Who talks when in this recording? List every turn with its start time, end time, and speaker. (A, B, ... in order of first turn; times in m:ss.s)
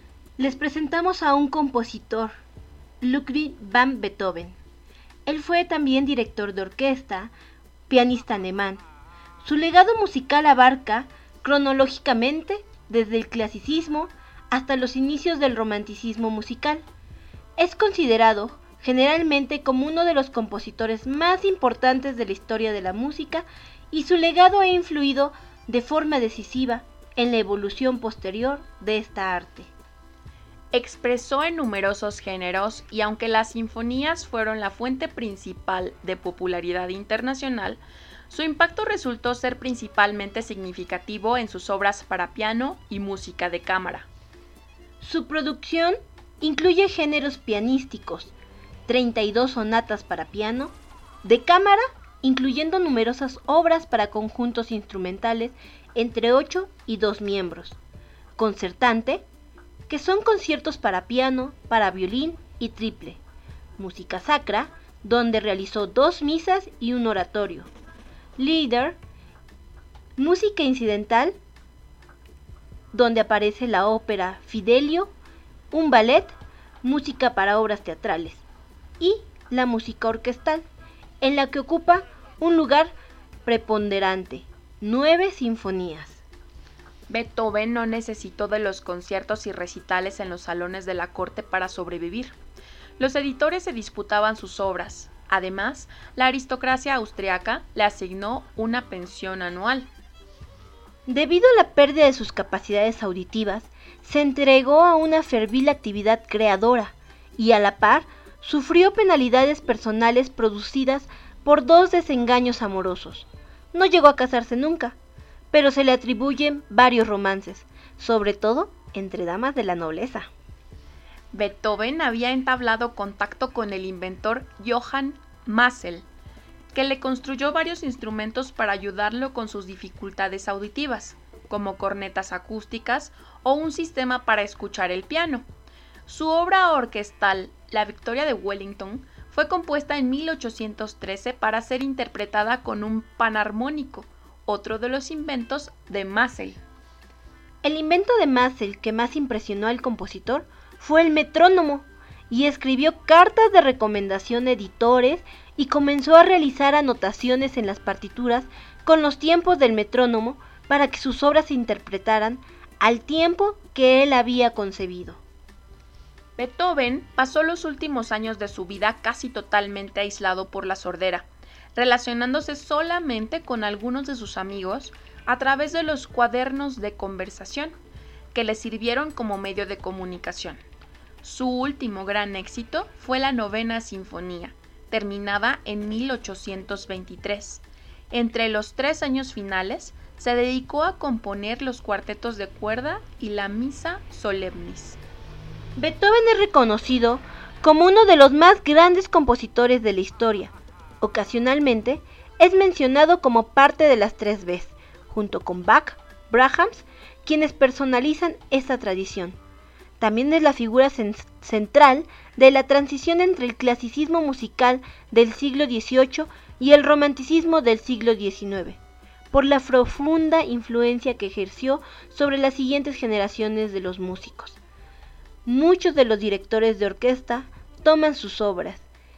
0:00.4-0:02.4 A
0:03.0-0:04.6 A
0:05.2-0:07.3 A
0:07.9-0:08.8 A
0:09.4-0:16.8 A
0:17.6-0:29.7 A
0:30.7-0:44.1 B
0:45.0-0:48.3 A
0:48.9-0:57.8 A
0:58.4-0:59.2 A
0:59.9-1:03.2 A
1:03.8-1:07.7 A
1:08.4-1:09.0 A
1:10.2-1:11.4 A
1:12.9-1:15.1 A
1:15.7-1:18.4 A
1:19.0-1:20.6 A
1:21.2-1:22.9 A
1:23.4-1:26.2 A
1:27.1-1:32.3 B
1:33.0-1:39.9 B
1:41.0-1:55.0 A
1:55.5-2:00.3 A
2:01.3-2:06.0 B
2:06.7-2:15.5 B
2:16.1-2:26.6 B
2:27.6-2:45.2 A
2:46.4-2:57.7 B
2:58.3-3:00.6 B
3:01.2-3:15.0 B
3:15.8-3:29.4 A
3:30.0-3:38.8 A
3:39.3-3:44.6 A
3:45.4-3:48.8 A